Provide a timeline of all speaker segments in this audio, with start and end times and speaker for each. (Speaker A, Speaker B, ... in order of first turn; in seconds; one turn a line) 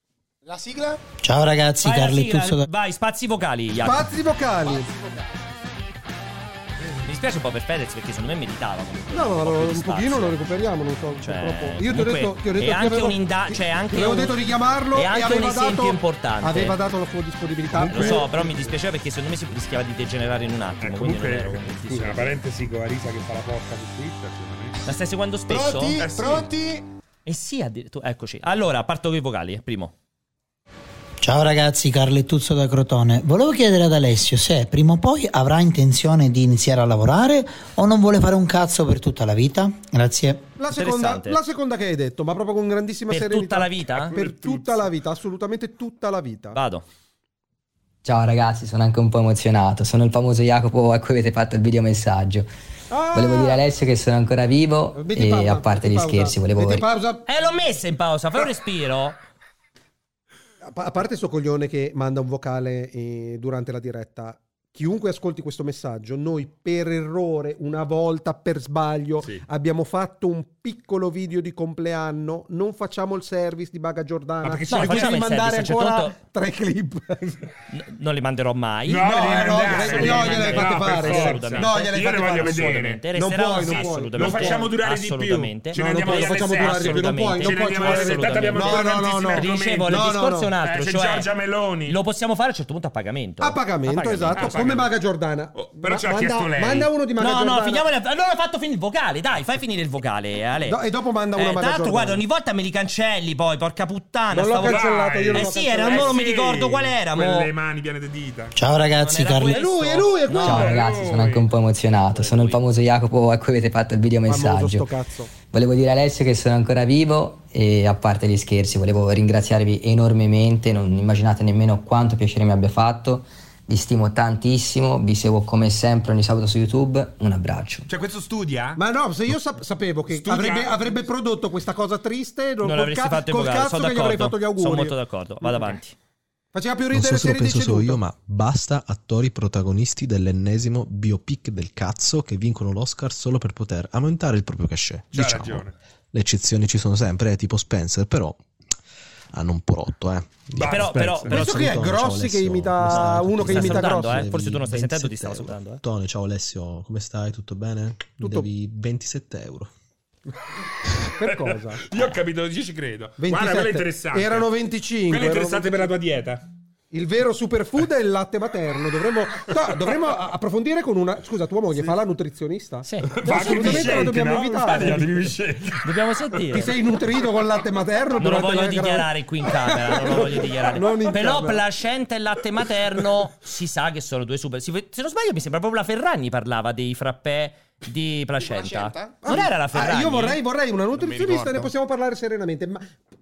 Speaker A: 0.5-1.0
Speaker B: 1.2-2.7
Speaker C: 1.8-4.1
Speaker D: 3.8-4.9
Speaker A: 4.6-5.4
Speaker C: 7.1-10.3
Speaker D: 9.1-18.8
Speaker C: 11.2-14.4
Speaker C: 14.9-16.8
Speaker E: 17.8-18.3
Speaker C: 17.8-22.3
Speaker E: 20.8-24.8
Speaker C: 24.9-26.0
Speaker A: 25.5-26.8
Speaker E: 26.0-26.5
Speaker C: 27.3-29.9
Speaker B: 31.2-40.5
Speaker D: 40.6-46.6
Speaker C: 40.7-41.4
Speaker C: 43.1-44.1
Speaker E: 43.9-44.9
Speaker C: 46.5-46.9
Speaker F: 48.0-52.5
Speaker D: 52.9-53.7
Speaker F: 53.1-56.8
Speaker D: 54.9-57.3
Speaker C: 57.3-59.2
Speaker D: 60.6-77.4
Speaker E: 74.4-75.2
Speaker C: 74.7-76.2
Speaker C: 77.7-91.3
Speaker E: 78.9-83.0
Speaker D: 79.0-84.7
Speaker E: 83.6-90.0
Speaker D: 85.7-90.5
Speaker E: 90.6-92.0
Speaker C: 91.9-94.6
Speaker D: 93.4-97.8
Speaker E: 94.3-94.9
Speaker E: 95.5-96.9
Speaker C: 97.2-100.8
Speaker D: 100.7-102.2
Speaker C: 101.3-107.5
Speaker D: 104.3-106.2
Speaker E: 104.6-108.5
Speaker B: 108.5-109.6
Speaker C: 109.0-110.8
Speaker D: 109.5-110.8
Speaker F: 110.3-114.9
Speaker E: 110.4-111.5
Speaker C: 112.1-112.6
Speaker D: 114.3-115.3
Speaker F: 115.5-127.9
Speaker E: 127.9-128.8
Speaker D: 128.8-135.7
Speaker E: 130.1-130.8
Speaker C: 132.6-135.9
Speaker D: 136.5-138.0
Speaker G: 136.9-148.4
Speaker E: 145.1-145.7
Speaker G: 149.3-159.7
Speaker E: 150.6-151.5
Speaker C: 150.6-151.7
Speaker D: 151.3-154.3
Speaker C: 152.8-155.8
Speaker D: 158.2-158.5
Speaker D: 161.2-161.8
Speaker E: 161.2-164.5
Speaker D: 163.2-165.9
Speaker E: 165.1-166.4
Speaker D: 166.9-175.3
Speaker C: 172.8-174.1
Speaker E: 173.2-175.8
Speaker C: 175.8-176.7
Speaker D: 176.5-181.6
Speaker C: 178.2-190.4
Speaker A: 188.4-189.2
Speaker D: 189.2-192.9
Speaker E: 191.0-191.7